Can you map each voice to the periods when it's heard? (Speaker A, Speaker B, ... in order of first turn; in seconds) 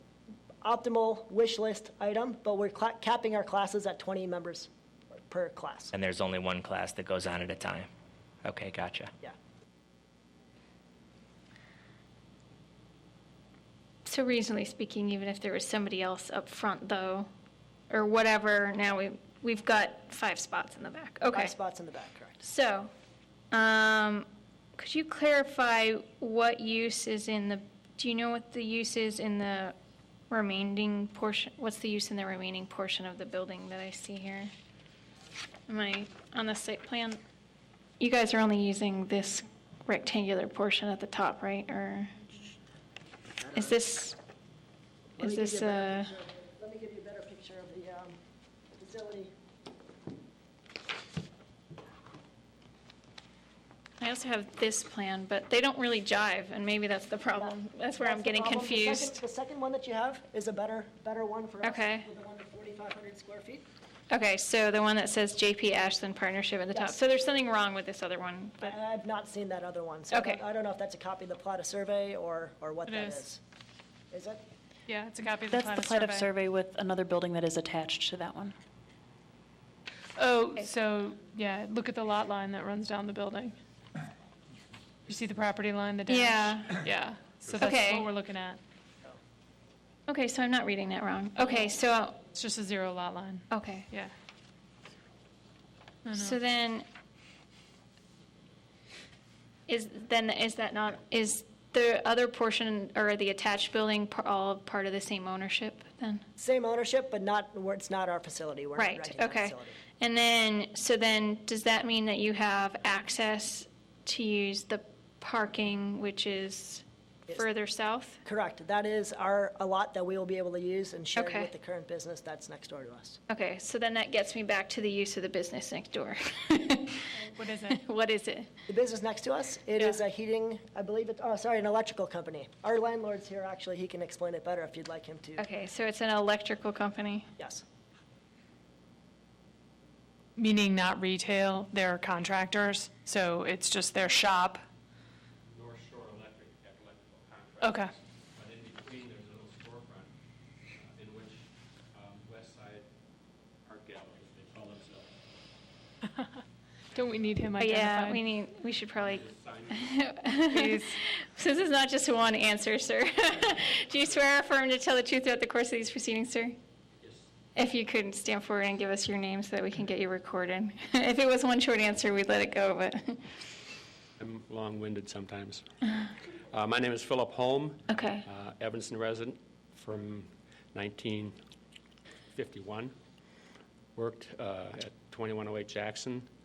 Speaker A: 0.6-5.9, 21.3-22.4, 43.4-43.8, 45.2-48.2, 48.8-49.3, 57.4-63.6, 66.7-67.0, 68.6-73.4, 74.1-74.4, 106.4-109.8, 118.2-123.2, 128.7-135.4, 137.4-137.6
Speaker B: 5.9-7.9, 8.5-9.1
Speaker C: 14.1-17.3, 17.9-21.5, 22.4-22.9, 23.5-29.8, 30.3-34.5, 35.7-37.2, 38.0-42.1, 43.5-44.2, 45.2-46.1, 54.0-59.2, 61.6-62.1, 64.1-68.8, 70.1-70.4, 86.1-86.8, 87.6-88.1, 90.1-92.2, 93.5-93.9, 96.1-96.9, 99.7-106.2, 108.8-118.2, 121.2-121.5, 123.3-127.1, 127.7-128.5, 135.4-137.3, 157.6-166.6, 167.6-173.3, 177.9-178.2
Speaker D: 72.9-73.2, 74.9-76.3, 80.2-83.6, 85.1-88.6, 92.3-94.1, 96.1-96.4, 127.2-127.8, 140.4-144.6, 147.6-147.9, 156.9-158.2, 160.5-161.0
Speaker E: 75.5-78.5
Speaker F: 145.5-150.1, 150.8-152.9, 153.7-155.1, 159.0-159.9, 167.0-167.3, 174.2-175.6, 176.5-181.3, 182.3-182.9, 184.0-186.3